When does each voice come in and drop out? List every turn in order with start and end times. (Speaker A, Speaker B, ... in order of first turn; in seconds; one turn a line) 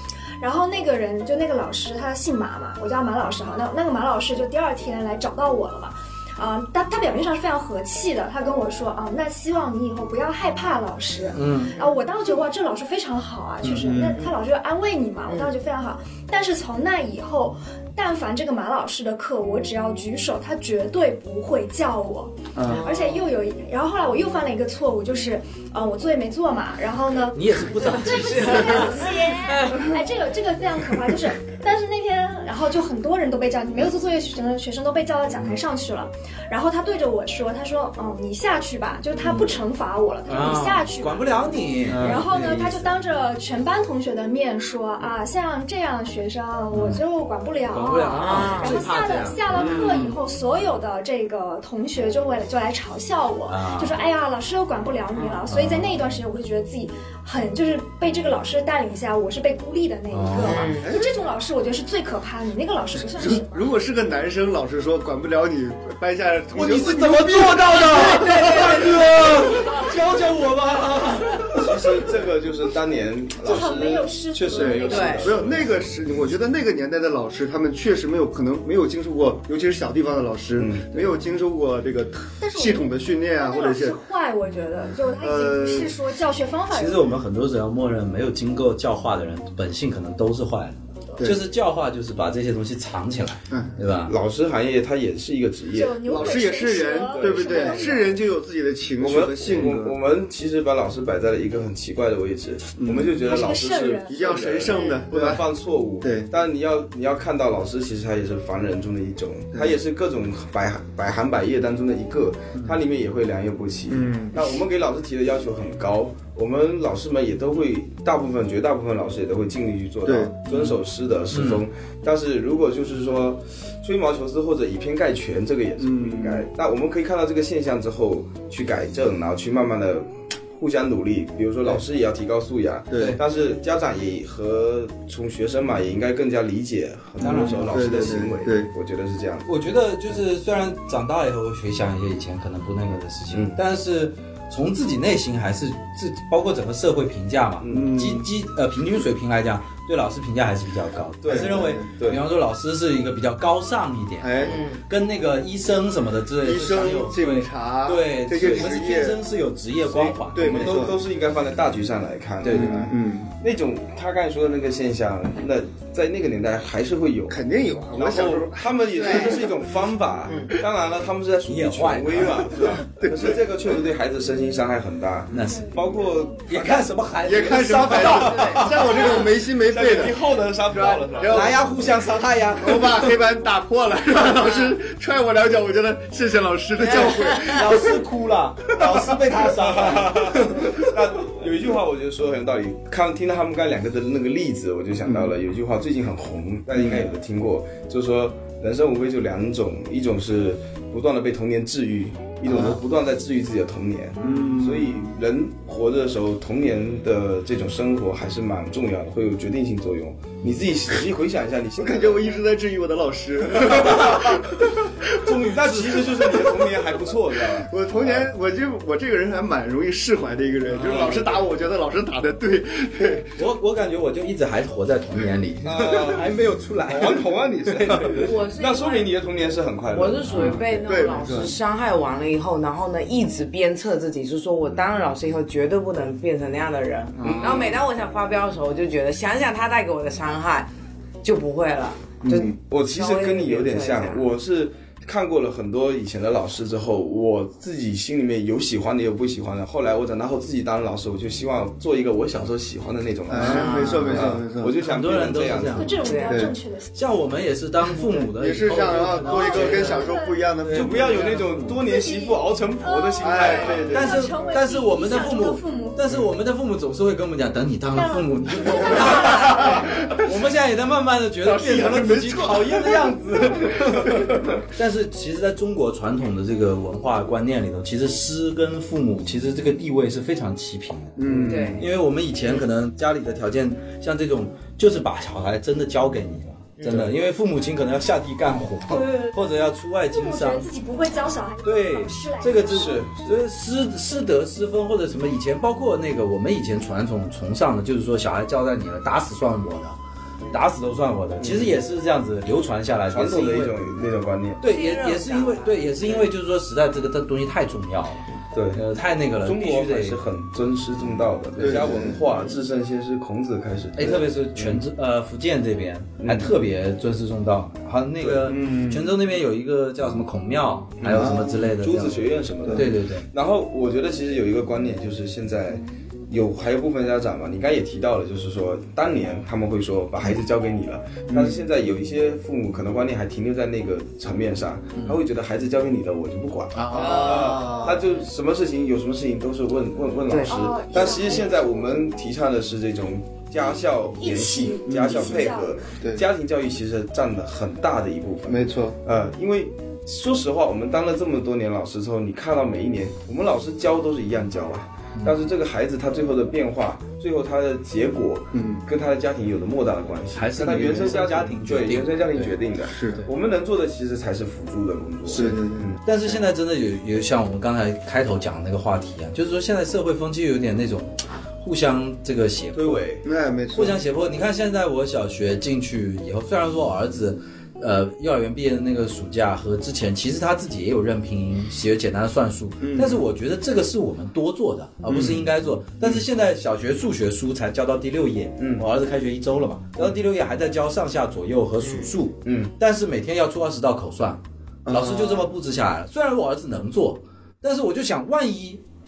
Speaker A: 0.4-63.7
Speaker B: 11.3-11.7
Speaker B: 13.6-14.1
Speaker C: 13.7-14.2
Speaker C: 22.6-22.9
Speaker D: 22.7-23.3
Speaker B: 27.3-29.0
Speaker D: 28.0-29.8
Speaker B: 39.2-39.5
Speaker B: 40.3-42.9
Speaker C: 41.9-42.2
Speaker B: 46.7-47.0
Speaker B: 47.7-50.1
Speaker D: 48.1-48.9
Speaker C: 49.5-50.1
Speaker B: 53.5-54.0
Speaker B: 55.5-56.1
Speaker B: 60.1-60.7
Speaker D: 60.4-60.9
Speaker C: 60.8-61.1
Speaker C: 63.1-69.1
Speaker B: 66.5-72.0
Speaker E: 71.6-75.9
Speaker A: 73.4-75.4
Speaker C: 74.6-84.0
Speaker D: 74.8-75.3
Speaker E: 80.6-81.1
Speaker A: 82.4-87.1
Speaker C: 85.2-86.0
Speaker B: 86.7-94.1
Speaker C: 93.5-93.8
Speaker E: 94.1-96.5
Speaker A: 95.7-98.1
Speaker C: 96.0-100.0
Speaker E: 97.1-98.0
Speaker E: 99.0-139.5
Speaker C: 102.8-103.2
Speaker A: 103.1-104.2
Speaker C: 104.1-105.5
Speaker C: 106.0-106.3
Speaker C: 113.9-114.6
Speaker C: 120.0-120.4
Speaker B: 121.3-121.7
Speaker C: 125.8-126.5
Speaker C: 132.9-133.2
Speaker B: 137.2-138.1
Speaker C: 137.2-138.7
Speaker B: 139.5-160.9
Speaker E: 143.3-143.6
Speaker E: 147.6-147.9
Speaker C: 147.7-148.3
Speaker E: 151.2-152.2
Speaker C: 151.3-151.9
Speaker C: 154.2-154.6
Speaker D: 154.4-154.8
Speaker C: 156.4-159.2
Speaker E: 158.4-158.7
Speaker E: 159.9-167.4
Speaker C: 160.3-161.0
Speaker B: 162.4-162.9
Speaker C: 162.5-163.3
Speaker C: 167.3-169.5
Speaker E: 167.9-176.9
Speaker D: 169.0-169.3
Speaker D: 170.3-170.5
Speaker B: 171.5-172.7
Speaker C: 172.9-173.4
Speaker B: 175.3-178.8
Speaker C: 177.2-181.6
Speaker E: 177.9-181.7
Speaker D: 178.3-178.6
Speaker B: 181.2-183.1
Speaker C: 182.6-188.0
Speaker D: 186.9-187.4
Speaker B: 187.4-190.8
Speaker E: 189.4-212.3
Speaker C: 195.0-195.3
Speaker C: 196.8-197.0
Speaker C: 202.5-202.8
Speaker B: 204.2-204.5
Speaker C: 204.2-205.1
Speaker C: 211.8-215.2
Speaker E: 213.6-214.4
Speaker E: 215.1-218.3
Speaker B: 215.5-216.4
Speaker C: 216.1-216.7
Speaker C: 217.5-223.4
Speaker B: 220.8-221.2
Speaker E: 220.8-221.2
Speaker B: 223.4-228.3
Speaker E: 225.6-226.3
Speaker E: 226.9-230.6
Speaker D: 228.2-229.1
Speaker D: 229.9-240.7
Speaker B: 230.3-230.6
Speaker C: 230.3-231.5
Speaker C: 237.2-237.7
Speaker E: 237.2-237.7
Speaker D: 241.2-244.3
Speaker C: 242.2-242.6
Speaker E: 242.7-256.0
Speaker C: 253.3-254.8
Speaker D: 253.4-254.1
Speaker B: 253.6-256.0
Speaker A: 255.7-256.9
Speaker D: 256.0-256.4
Speaker C: 256.3-256.6
Speaker B: 256.9-260.1
Speaker C: 258.0-261.3
Speaker A: 259.2-260.4
Speaker B: 260.6-261.8
Speaker E: 260.7-264.2
Speaker A: 261.7-266.0
Speaker C: 263.2-264.3
Speaker B: 263.9-290.7
Speaker A: 267.9-269.9
Speaker C: 271.4-274.4
Speaker C: 281.2-281.9
Speaker D: 281.3-281.9
Speaker A: 288.9-289.5
Speaker A: 290.1-293.0
Speaker B: 291.6-300.0
Speaker E: 292.5-293.3
Speaker B: 300.5-303.8
Speaker E: 301.4-301.8
Speaker E: 303.1-304.6
Speaker B: 304.6-310.2
Speaker D: 304.6-306.3
Speaker E: 308.5-308.8
Speaker E: 309.4-314.8
Speaker C: 311.6-312.2
Speaker B: 314.0-322.2
Speaker E: 316.2-316.5
Speaker E: 318.2-318.6
Speaker C: 318.5-319.1
Speaker C: 321.0-321.7
Speaker E: 321.1-366.0
Speaker B: 322.7-323.3
Speaker C: 331.3-331.6
Speaker B: 336.7-337.4
Speaker C: 336.9-338.1
Speaker D: 336.9-337.6
Speaker D: 340.3-340.6
Speaker A: 340.5-342.1
Speaker A: 344.2-345.8
Speaker C: 344.9-346.3
Speaker C: 348.5-349.0
Speaker C: 358.5-358.8
Speaker B: 360.4-362.5
Speaker C: 360.6-361.2
Speaker C: 362.9-363.2
Speaker C: 365.3-365.9
Speaker B: 366.1-373.1
Speaker E: 372.8-373.2
Speaker C: 373.2-374.0
Speaker B: 373.7-398.8
Speaker C: 382.8-383.2
Speaker C: 385.1-385.4
Speaker E: 388.6-388.9
Speaker E: 392.4-392.7
Speaker C: 394.9-395.5